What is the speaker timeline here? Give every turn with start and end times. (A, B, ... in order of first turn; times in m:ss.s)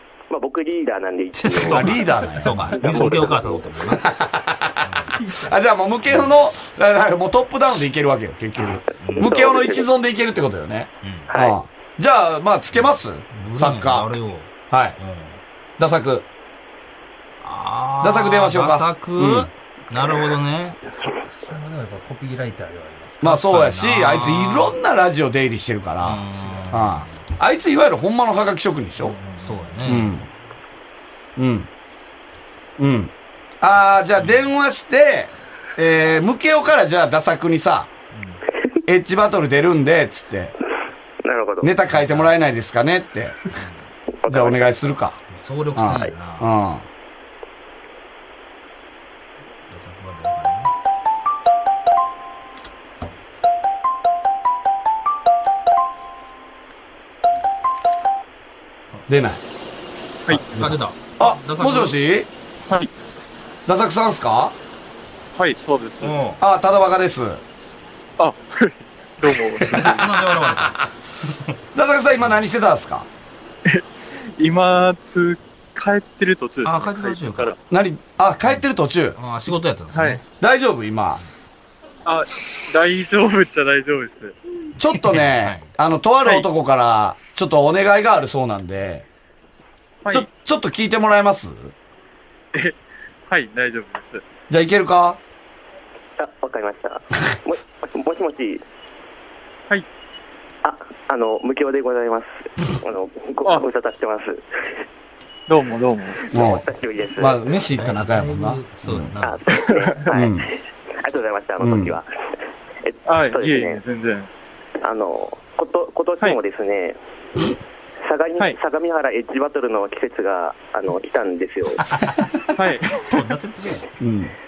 0:00.3-0:03.6 A
0:01.3-0:04.1 B
0:01.6-0:03.2 C
0:03.8-0:14.1 C
0:04.8-0:05.1 B
0:05.2-0:05.5 D
0:09.0-0:09.3 B
0:09.2-0:09.9 A
0:11.0-0:11.3 B
0:11.3-0:11.6 A
0:12.7-0:15.4 B
0:14.7-0:15.0 C
0:15.8-0:16.2 C
0:17.4-0:20.8 B
0:18.0-0:19.5 C
0:20.8-0:23.4 D
0:23.2-0:29.2 C
0:23.2-0:24.8 B
0:26.0-0:27.1 B
0:29.0-0:30.3 D
0:29.4-0:30.2 B
0:29.8-0:30.3 C
0:31.4-0:31.7 C
0:32.8-0:37.9 C
0:34.2-0:34.4 B
0:38.1-0:38.4 D
0:38.8-0:40.5 C
0:41.2-0:41.7 A
0:41.6-0:43.4 C
0:41.9-0:42.3 B
0:44.2-0:44.6 A
0:44.3-0:45.2 C
0:45.3-0:46.5 B
0:45.8-0:46.8 C
0:49.7-0:50.7 B
0:59.1-0:59.4 C
1:00.3-1:02.0 B
1:00.5-1:02.3 C
1:03.6-1:04.5 C
1:05.4-1:06.2 E
1:06.0-1:06.4 B
1:06.4-1:07.4 C
1:08.2-1:10.1 E
1:09.6-1:10.9 C
1:09.6-1:10.8 B
1:11.7-1:13.1 C
1:13.6-1:17.6 E
1:16.6-1:17.5 B
1:17.7-1:19.2 C
1:19.2-1:20.2 B
1:19.9-1:20.2 E
1:20.4-1:21.2 C
1:22.0-1:24.4 E
1:24.8-1:29.0 C
1:24.8-1:25.7 B
1:30.1-1:31.7 C
1:33.3-1:34.2 E
1:34.5-1:35.2 C
1:36.2-1:38.6 A
1:40.6-1:44.4 A
1:45.5-1:46.3 E
1:46.2-1:47.6 A
1:46.3-1:49.1 C
1:47.7-1:49.4 B
1:49.2-1:50.5 A
1:49.6-1:50.1 E
1:50.1-1:50.5 C
1:51.0-1:52.1 A
1:51.6-1:52.0 C
1:52.8-1:53.8 A
1:53.0-1:54.3 E
1:54.8-1:57.0 A
1:58.0-2:01.8 A
2:01.8-2:02.4 B
2:02.5-2:03.0 E
2:03.1-2:03.8 B
2:04.0-2:04.3 C